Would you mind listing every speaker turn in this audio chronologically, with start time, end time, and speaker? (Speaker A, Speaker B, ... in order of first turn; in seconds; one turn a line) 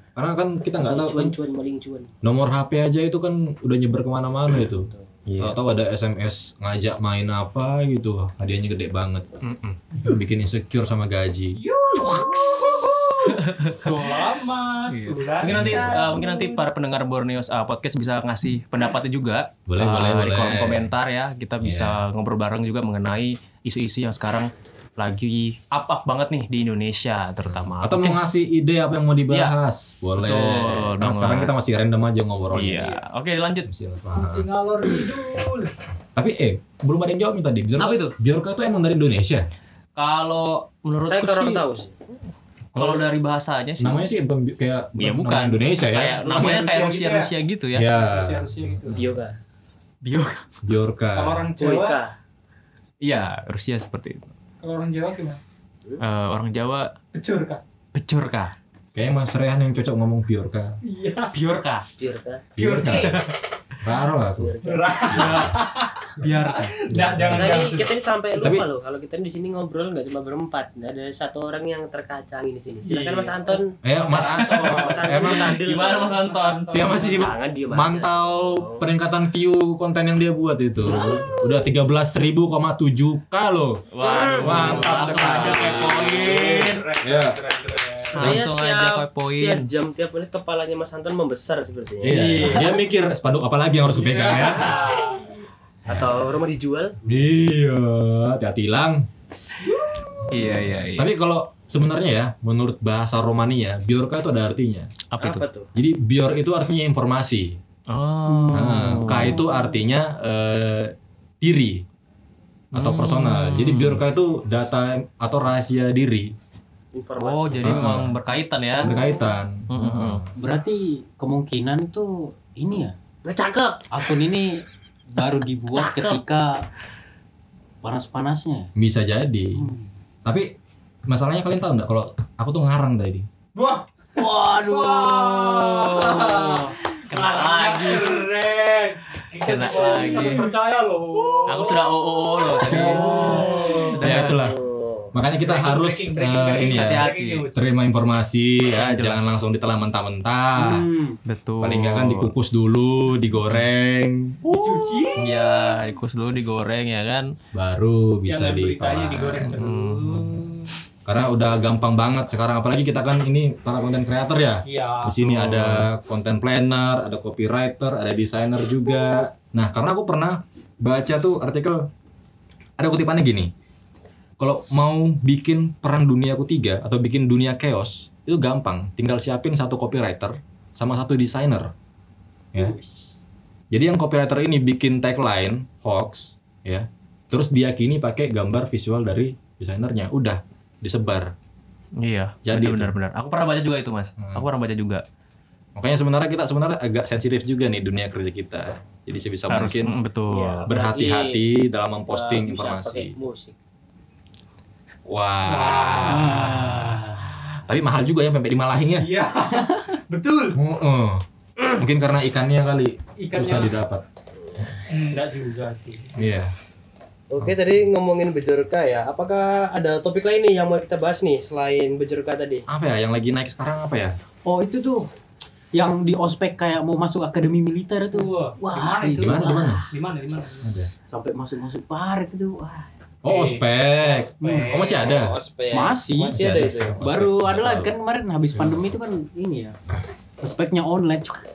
Speaker A: 0.1-1.3
Speaker B: 0.8-2.1
Speaker A: 2.2-9.3
Speaker C: 5.3-5.6
Speaker C: 9.4-9.8
Speaker A: 9.9-13.4
Speaker D: 11.6-16.6
Speaker C: 13.3-13.8
Speaker C: 14.9-28.2
Speaker A: 15.4-16.0
Speaker A: 19.7-20.9
Speaker A: 21.6-22.0
Speaker A: 27.4-33.0
Speaker C: 30.2-31.5
Speaker C: 32.5-33.7
Speaker A: 33.6-34.9
Speaker D: 34.1-35.7
Speaker A: 36.1-39.4
Speaker C: 37.8-38.1
Speaker C: 40.0-41.6
Speaker B: 41.0-41.9
Speaker A: 42.7-43.0
Speaker C: 42.8-44.0
Speaker A: 43.8-46.6
Speaker C: 45.0-47.8
Speaker D: 46.2-47.3
Speaker A: 47.7-49.0
Speaker D: 47.9-49.0
Speaker B: 48.9-49.4
Speaker C: 50.0-50.4
Speaker A: 50.6-51.5
Speaker D: 51.1-52.0
Speaker B: 51.6-52.1
Speaker C: 53.0-54.3
Speaker D: 54.6-55.4
Speaker C: 56.0-56.9
Speaker D: 57.1-57.6
Speaker C: 57.9-58.5
Speaker A: 58.9-60.8
Speaker D: 60.8-61.3
Speaker C: 61.3-61.8
Speaker B: 62.0-62.5
Speaker A: 62.5-63.3
Speaker D: 62.6-63.3
Speaker A: 63.8-65.5
Speaker B: 64.4-65.4
Speaker D: 64.6-68.5
Speaker C: 66.2-66.8
Speaker A: 66.9-67.6
Speaker B: 67.3-76.1
Speaker A: 68.4-68.7
Speaker D: 72.8-74.9
Speaker A: 73.8-75.6
Speaker C: 74.4-76.7
Speaker D: 75.9-77.3
Speaker A: 76.7-83.8
Speaker B: 76.8-78.9
Speaker B: 80.8-81.6
Speaker C: 83.9-86.8
Speaker B: 84.0-84.7
Speaker A: 84.3-87.4
Speaker D: 84.6-88.2
Speaker B: 85.7-86.1
Speaker C: 88.1-89.7
Speaker A: 88.2-88.5
Speaker B: 88.2-92.7
Speaker A: 92.0-94.9
Speaker D: 92.1-92.6
Speaker D: 93.9-95.3
Speaker B: 94.7-95.0
Speaker B: 95.8-97.0
Speaker A: 95.9-96.2
Speaker A: 97.0-99.1
Speaker D: 99.7-100.0
Speaker A: 100.3-104.9
Speaker C: 100.3-101.1
Speaker C: 105.1-105.4
Speaker B: 105.2-105.7
Speaker A: 105.7-107.6
Speaker C: 107.9-109.4
Speaker A: 108.5-111.8
Speaker C: 112.7-114.0
Speaker A: 112.7-116.3
Speaker B: 116.9-117.9
Speaker C: 117.2-118.9
Speaker A: 117.6-118.2
Speaker A: 118.8-120.3
Speaker C: 119.7-120.2
Speaker E: 120.4-122.9
Speaker B: 123.2-123.9
Speaker E: 123.9-124.5
Speaker E: 125.1-126.5
Speaker B: 125.7-126.2
Speaker E: 127.8-128.7
Speaker A: 128.8-129.6
Speaker E: 129.6-129.8
Speaker A: 131.1-133.2
Speaker D: 133.5-144.1
Speaker C: 134.2-138.3
Speaker C: 139.4-140.5
Speaker C: 141.5-144.4
Speaker A: 142.6-144.5
Speaker B: 143.0-145.1
Speaker A: 145.1-150.8
Speaker D: 145.4-147.7
Speaker C: 146.7-147.5
Speaker C: 148.8-149.4
Speaker B: 150.6-151.2
Speaker C: 151.2-152.3
Speaker A: 151.6-155.2
Speaker D: 154.4-155.3
Speaker C: 155.2-157.3
Speaker A: 157.5-159.6
Speaker D: 158.2-160.7
Speaker C: 159.5-160.3
Speaker A: 161.1-171.9
Speaker D: 164.6-165.2
Speaker C: 165.2-165.9
Speaker A: 172.8-173.5
Speaker A: 174.4-181.7
Speaker A: 183.7-191.3
Speaker C: 192.0-195.0
Speaker A: 192.4-192.9
Speaker A: 194.2-194.4
Speaker A: 195.8-200.0
Speaker C: 199.5-200.7
Speaker B: 200.3-201.4
Speaker A: 200.7-203.1
Speaker B: 202.1-203.5
Speaker A: 205.1-209.1
Speaker D: 205.4-207.2
Speaker D: 209.0-210.6
Speaker A: 210.5-214.0
Speaker D: 213.2-213.7
Speaker D: 214.9-216.1
Speaker A: 216.2-216.5
Speaker B: 217.3-222.6
Speaker A: 222.7-224.2
Speaker E: 224.4-225.1
Speaker E: 225.7-229.9
Speaker D: 228.1-230.8
Speaker A: 229.2-229.8
Speaker A: 230.6-230.9
Speaker E: 231.1-232.9
Speaker A: 233.2-235.3
Speaker D: 233.2-234.9
Speaker E: 234.4-234.7
Speaker B: 234.6-237.0
Speaker E: 235.7-239.8
Speaker A: 236.3-237.9
Speaker A: 238.5-238.9
Speaker E: 240.4-241.4